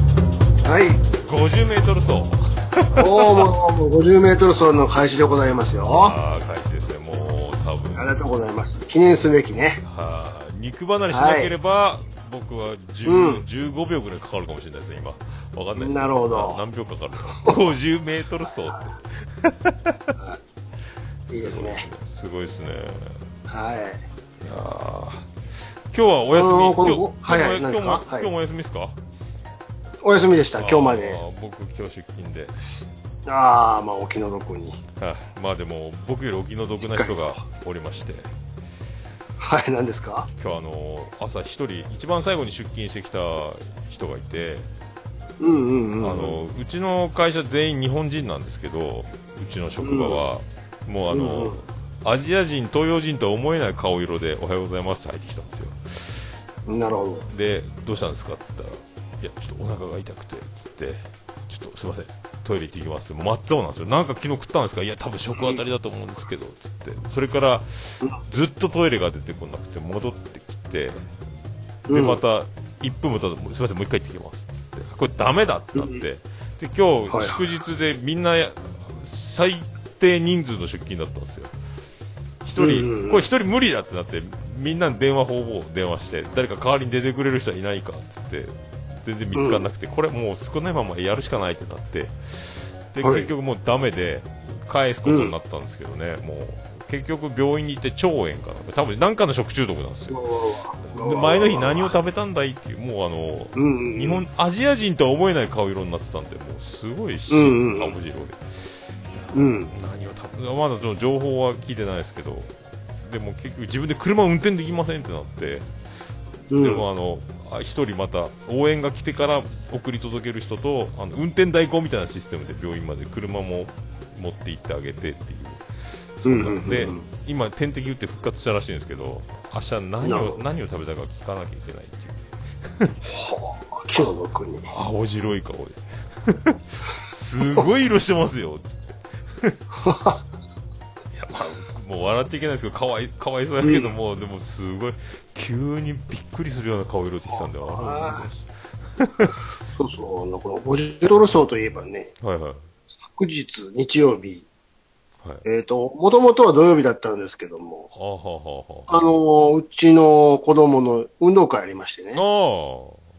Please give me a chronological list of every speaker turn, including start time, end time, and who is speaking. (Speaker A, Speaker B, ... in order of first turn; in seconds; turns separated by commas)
Speaker A: 0.6-1.0, Speaker B: 1.1-3.5, Speaker A: 3.0-6.2, Speaker B: 5.9-8.2, Speaker A: 8.0-9.8, Speaker B: 9.8-20.1, Speaker A: 11.1-11.6, Speaker A: 13.1-13.4, Speaker A: 15.8-16.6, Speaker A: 18.7-18.9, Speaker B: 21.3-23.2, Speaker A: 21.3-21.9, Speaker A: 23.5-24.0, Speaker B: 24.4-25.3, Speaker B: 25.9-29.0, Speaker A: 26.3-28.3, Speaker A: 30.0-31.2, Speaker B: 30.6-32.5, Speaker A: 33.3-34.8, Speaker B: 35.0-38.3, Speaker A: 36.9-37.4, Speaker A: 39.4-40.3, Speaker B: 40.3-44.7, Speaker A: 45.4-46.4, Speaker B: 46.0-56.3, Speaker A: 49.8-50.3, Speaker A: 51.1-51.6, Speaker A: 56.7-57.3, Speaker B: 57.3-71.0, Speaker A: 65.3-65.6, Speaker A: 71.9-72.2, Speaker B: 71.9-81.5, Speaker A: 75.7-76.0, Speaker A: 77.1-77.4, Speaker B: 82.4-100.2, Speaker A: 82.6-83.2, Speaker A: 89.3-89.7, Speaker A: 93.0-93.3, Speaker A: 95.0-95.3, Speaker A: 100.1-102.0, Speaker B: 100.8-115.7, Speaker A: 103.5-104.2, Speaker A: 107.3-108.0, Speaker A: 109.3-109.7, Speaker A: 116.5-116.9, Speaker B: 116.6-133.0, Speaker A: 126.2-127.1, Speaker A: 130.0-130.4, Speaker A: 133.1-134.7, Speaker B: 134.7-139.6, Speaker A: 139.8-140.2, Speaker B: 141.1-149.4, Speaker A: 143.6-143.9, Speaker A: 147.3-148.2, Speaker A: 149.7-152.1, Speaker B: 152.2-152.7, Speaker A: 153.2-154.5, Speaker A: 155.4-157.9, Speaker B: 157.9-159.0, Speaker A: 158.9-162.2, Speaker B: 162.1-163.0